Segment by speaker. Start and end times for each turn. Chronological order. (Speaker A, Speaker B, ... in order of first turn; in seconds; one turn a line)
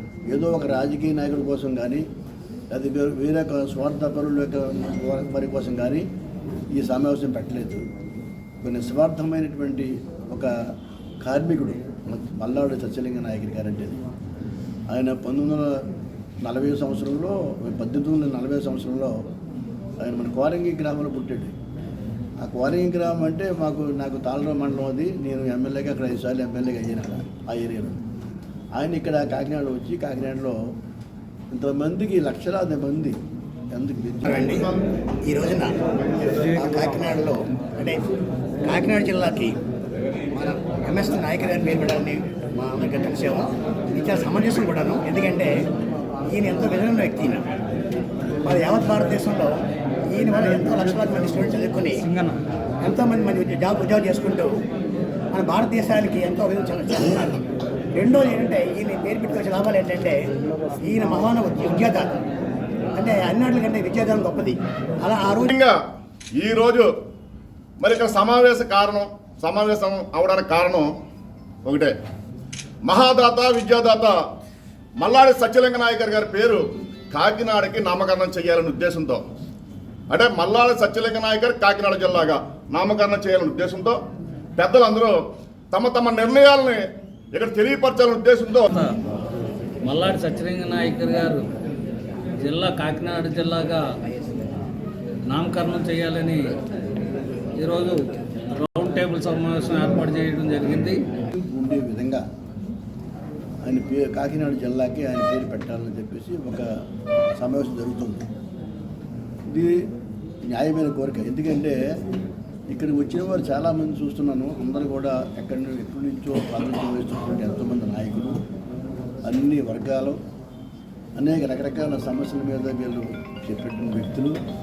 Speaker A: 0.3-2.0
Speaker A: 2.7-6.0
Speaker A: 6.7-7.8
Speaker A: 8.6-10.5
Speaker A: 11.2-14.0
Speaker A: 14.9-15.7
Speaker A: 16.4-19.1
Speaker A: 20.0-21.5
Speaker A: 22.4-28.0
Speaker A: 28.8-30.6
Speaker A: 31.5-33.2
Speaker A: 33.7-34.3
Speaker B: 34.2-35.8
Speaker B: 36.4-38.1
Speaker B: 38.6-39.6
Speaker B: 40.3-45.5
Speaker B: 46.3-47.5
Speaker B: 48.4-52.0
Speaker C: 52.1-52.4
Speaker B: 52.8-54.6
Speaker B: 55.3-60.2
Speaker B: 60.8-62.1
Speaker B: 62.9-65.5
Speaker D: 66.3-66.9
Speaker D: 67.8-70.9
Speaker D: 71.7-72.0
Speaker D: 72.8-74.2
Speaker D: 75.0-79.2
Speaker D: 80.1-84.0
Speaker D: 84.6-88.7
Speaker C: 88.7-89.0
Speaker C: 89.8-91.4
Speaker C: 92.4-93.8
Speaker C: 95.3-96.5
Speaker C: 97.6-98.0
Speaker C: 98.6-101.0
Speaker A: 101.3-102.2
Speaker A: 103.6-106.7
Speaker A: 107.4-108.2
Speaker A: 109.5-109.8
Speaker A: 110.5-111.8
Speaker A: 112.7-118.3
Speaker A: 119.2-120.2
Speaker A: 121.2-124.3